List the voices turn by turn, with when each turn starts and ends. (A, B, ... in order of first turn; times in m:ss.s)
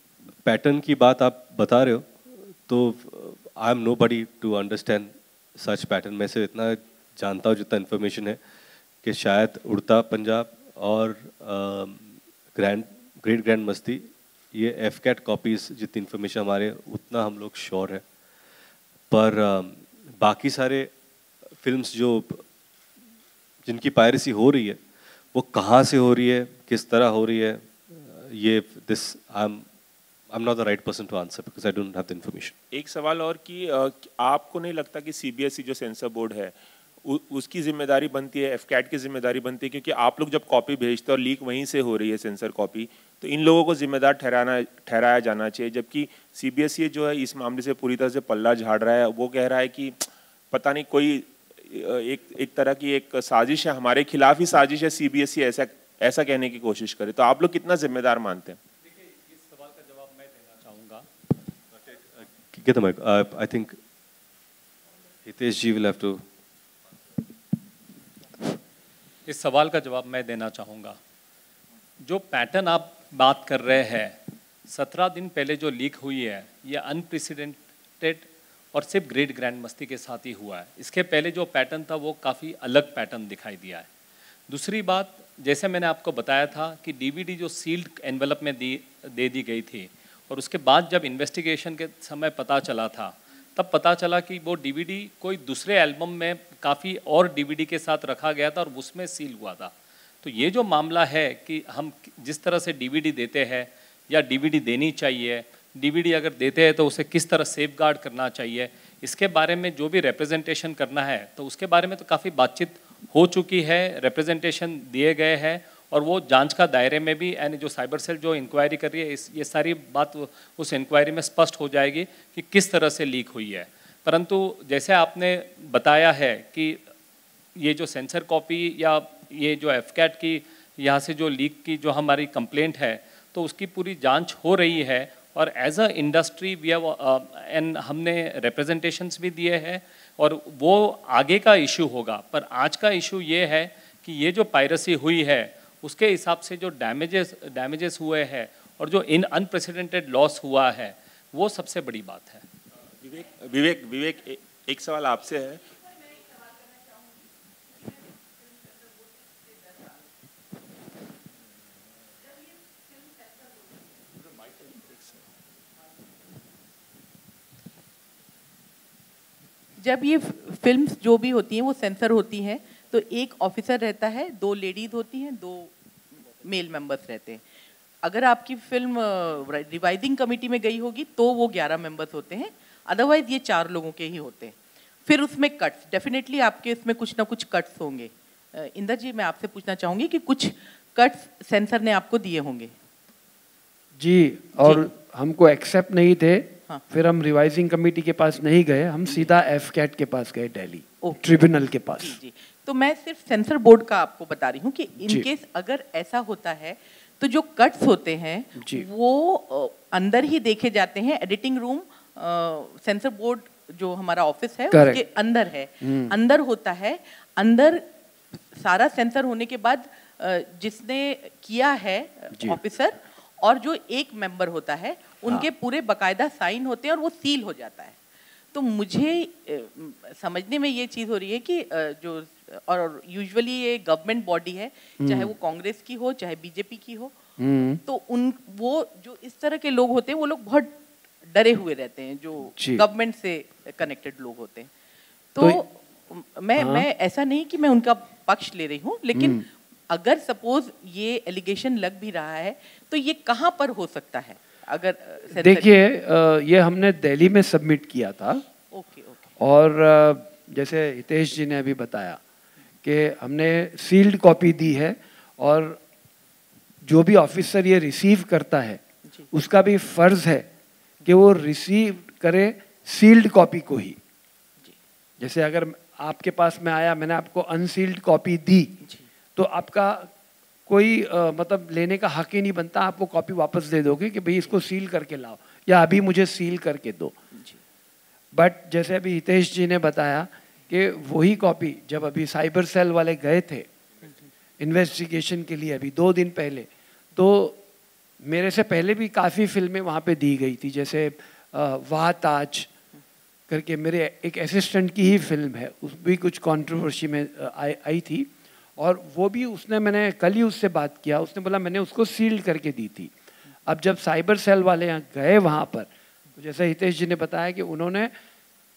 0:00.4-0:02.1 A
0:02.7-0:08.4 A
0:09.0-0:12.0 A
0:12.5-0:18.0 A
0:19.1-0:20.9 A
0:21.6-0:22.4 A
0:23.6-0:24.8 A
0:25.3-0:29.6 A
0:30.3-0:32.5 A
0:32.7-0:58.6 B
0:59.0-1:01.0 C
1:02.5-1:03.8 A
1:05.2-1:06.2 A
1:09.2-1:11.0 C
1:12.0-1:23.9 C
1:24.5-2:06.8 C
2:07.5-2:32.4 C
2:33.0-2:35.7 B
2:49.8-2:55.7 D
2:56.3-2:57.4 D
2:58.0-3:12.7 D
3:14.0-3:22.2 E
3:14.6-3:14.9 D
3:19.0-3:19.3 D
3:21.9-3:48.0 D
3:28.6-3:28.8 E
3:34.7-3:35.0 E
3:35.8-3:36.1 E
3:48.5-3:57.2 D
3:55.0-3:55.3 E
3:57.4-3:57.8 E
3:57.8-4:04.7 D
4:02.5-4:02.8 E
4:05.3-4:15.7 D
4:06.6-4:06.9 E
4:09.1-4:09.4 E
4:15.3-4:18.4 E
4:18.7-4:19.2 D
4:19.4-4:22.2 E
4:22.8-4:25.8 E
4:26.8-4:28.8 E
4:29.3-4:30.4 E
4:31.0-4:34.0 E
4:35.2-4:38.8 E
4:38.8-4:39.1 D
4:39.3-4:40.1 E
4:40.7-4:47.1 E
4:47.3-4:47.6 D
4:48.3-4:53.6 E
4:54.6-4:57.6 E
4:58.2-5:02.7 E
5:03.5-5:13.1 E
5:13.6-5:18.1 E